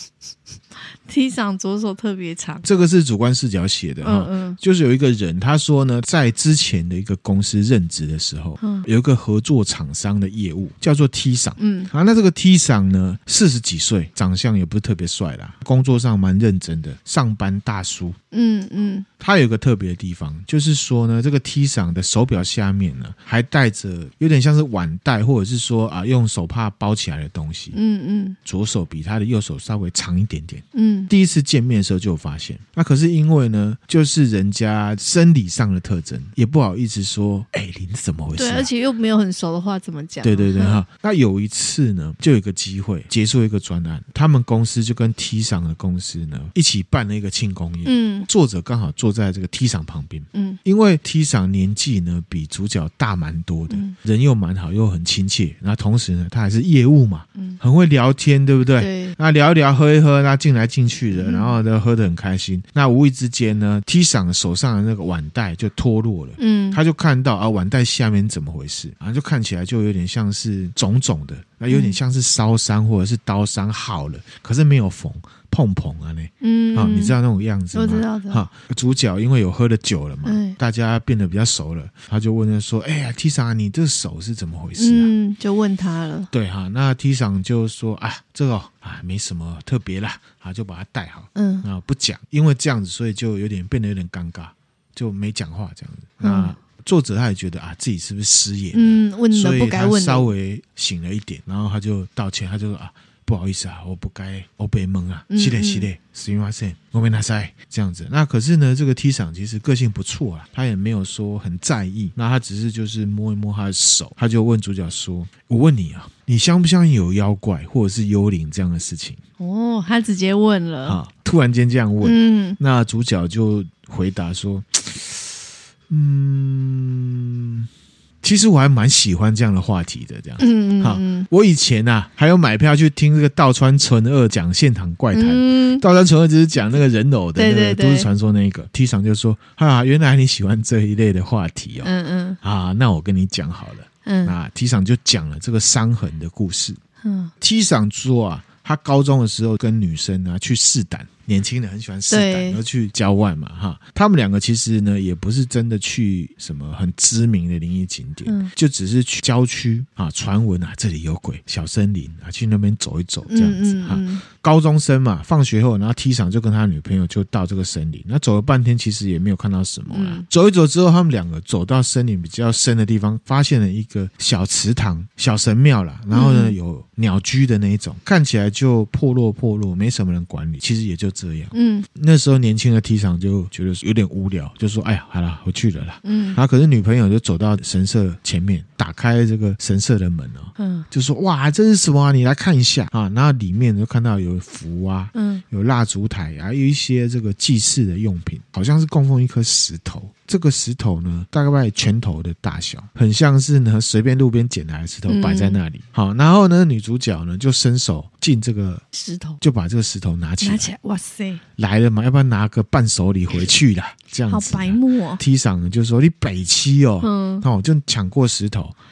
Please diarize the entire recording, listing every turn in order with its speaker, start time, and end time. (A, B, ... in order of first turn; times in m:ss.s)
0:00.9-0:02.6 A
0:02.6-0:18.2 B
0:04.0-0:04.6 A
0:08.6-0:08.9 A
0:11.6-0:11.9 A
0:18.3-0:19.1 A
0:19.2-0:27.8 B
0:27.7-0:28.4 A
0:28.4-0:38.7 B
0:30.7-0:31.1 A
0:38.4-0:40.8 A
0:40.2-1:25.1 B
0:47.8-0:48.3 A
0:50.3-0:50.6 A
0:53.7-0:54.0 A
0:58.8-0:59.2 A
1:01.2-1:01.6 A
1:06.4-1:06.8 A
1:11.7-1:12.0 A
1:16.4-1:17.2 A
1:17.7-1:18.5 A
1:20.2-1:20.6 A
1:24.8-1:26.3 A
1:26.3-1:59.2 B
1:31.4-1:31.6 A
1:36.2-1:36.6 A
1:38.7-1:40.3 A
1:45.3-1:45.9 A
1:59.4-2:01.0 A
2:00.8-2:07.7 B
2:02.0-2:02.6 A
2:08.2-2:26.8 B
2:10.4-2:11.3 A
2:15.1-2:15.8 A
2:17.4-2:18.1 A
2:21.8-2:22.4 A
2:24.0-2:24.4 A
2:27.0-2:27.3 A
2:27.4-3:28.8 B
2:32.1-2:32.6 A
2:38.2-2:38.5 A
2:43.3-2:44.2 A
2:49.9-2:50.3 A
2:56.1-2:56.6 A
3:01.5-3:01.9 A
3:06.0-3:06.4 A
3:10.6-3:10.9 A
3:15.1-3:15.4 A
3:25.1-3:25.6 A
3:28.9-3:29.4 A
3:29.4-3:30.7 B
3:30.4-3:31.4 A
3:31.6-3:38.8 B
3:34.3-3:35.2 A
3:37.0-3:37.5 A